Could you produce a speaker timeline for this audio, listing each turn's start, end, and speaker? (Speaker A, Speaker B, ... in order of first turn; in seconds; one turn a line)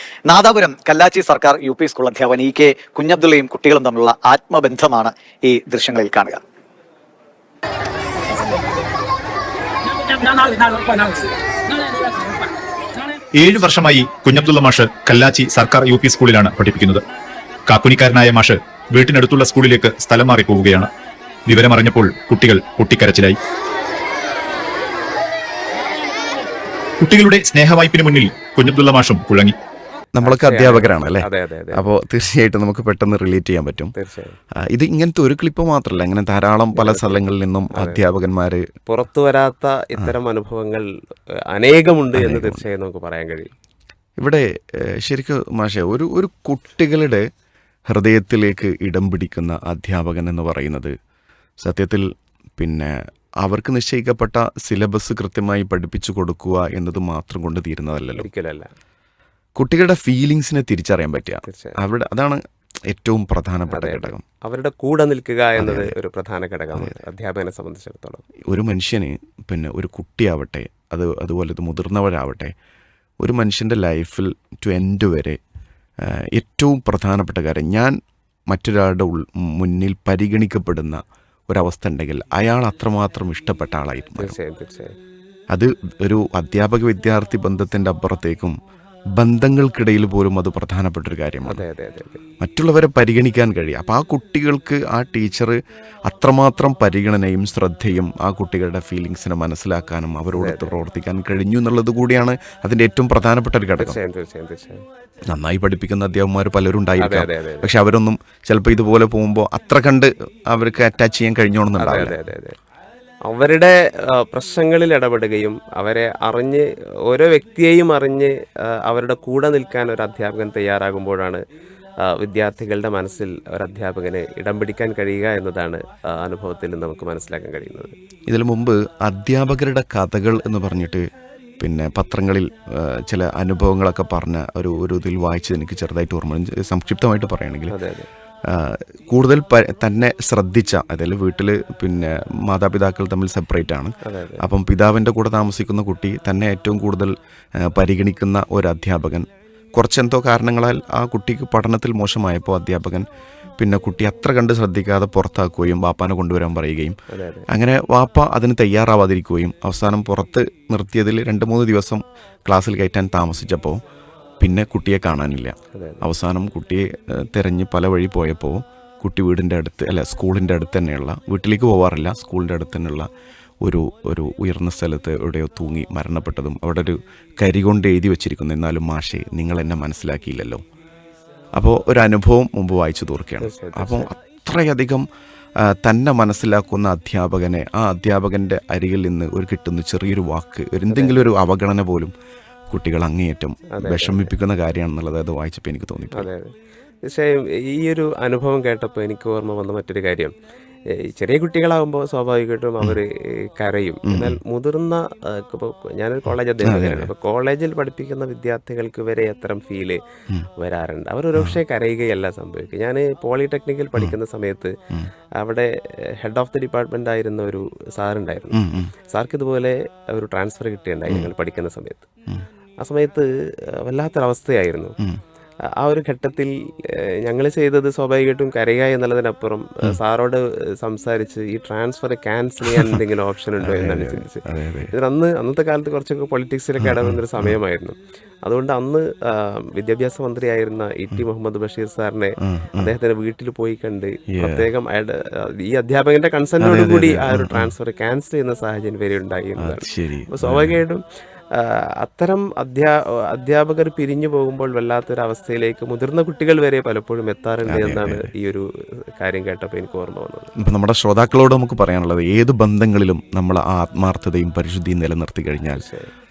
Speaker A: 0.3-6.4
Speaker B: 10.2-11.2
Speaker B: 13.3-17.0
Speaker B: 17.7-20.9
Speaker B: 21.5-23.4
Speaker B: 27.0-29.6
Speaker C: 30.1-33.9
Speaker D: 30.2-31.8
Speaker D: 33.9-34.4
Speaker C: 34.6-38.6
Speaker D: 36.7-38.0
Speaker D: 38.9-40.9
Speaker D: 41.5-43.5
Speaker C: 42.1-42.6
Speaker C: 44.2-47.2
Speaker C: 47.9-50.9
Speaker C: 51.6-52.1
Speaker C: 52.6-58.3
Speaker D: 58.1-58.7
Speaker C: 59.5-64.2
Speaker D: 61.4-61.8
Speaker D: 63.7-68.2
Speaker C: 65.6-65.9
Speaker C: 68.5-72.5
Speaker C: 73.2-75.4
Speaker C: 76.0-77.9
Speaker C: 78.5-84.4
Speaker D: 84.2-84.9
Speaker C: 85.5-88.5
Speaker C: 89.2-91.6
Speaker D: 91.4-92.2
Speaker C: 92.4-104.0
Speaker D: 100.3-100.8
Speaker D: 103.8-104.8
Speaker C: 105.3-112.2
Speaker D: 107.0-107.7
Speaker D: 111.8-112.5
Speaker D: 113.2-121.4
Speaker D: 122.0-127.9
Speaker C: 128.3-131.0
Speaker C: 131.6-137.8
Speaker D: 137.7-138.1
Speaker C: 138.5-153.1
Speaker D: 144.0-144.4
Speaker C: 153.6-157.0
Speaker D: 157.1-157.5
Speaker C: 157.5-163.8
Speaker C: 164.4-173.1
Speaker D: 165.7-166.0
Speaker C: 173.6-180.6
Speaker C: 181.6-185.0
Speaker D: 183.4-184.1
Speaker C: 185.6-192.1
Speaker D: 190.9-191.3
Speaker C: 192.7-196.3
Speaker D: 193.7-194.3
Speaker D: 196.1-196.5
Speaker D: 197.0-200.3
Speaker D: 200.9-210.0
Speaker C: 204.1-204.4
Speaker C: 206.6-207.1
Speaker D: 210.6-214.7
Speaker D: 215.3-222.1
Speaker C: 218.5-218.9
Speaker D: 222.8-224.9
Speaker D: 225.8-251.0
Speaker C: 232.7-233.0
Speaker C: 233.6-234.9
Speaker C: 236.8-237.6
Speaker C: 242.4-242.9
Speaker C: 244.3-244.7
Speaker C: 246.6-247.7
Speaker C: 249.6-250.8
Speaker D: 251.5-258.6
Speaker C: 257.6-258.3
Speaker D: 259.2-260.5
Speaker C: 260.6-265.8
Speaker D: 265.7-266.1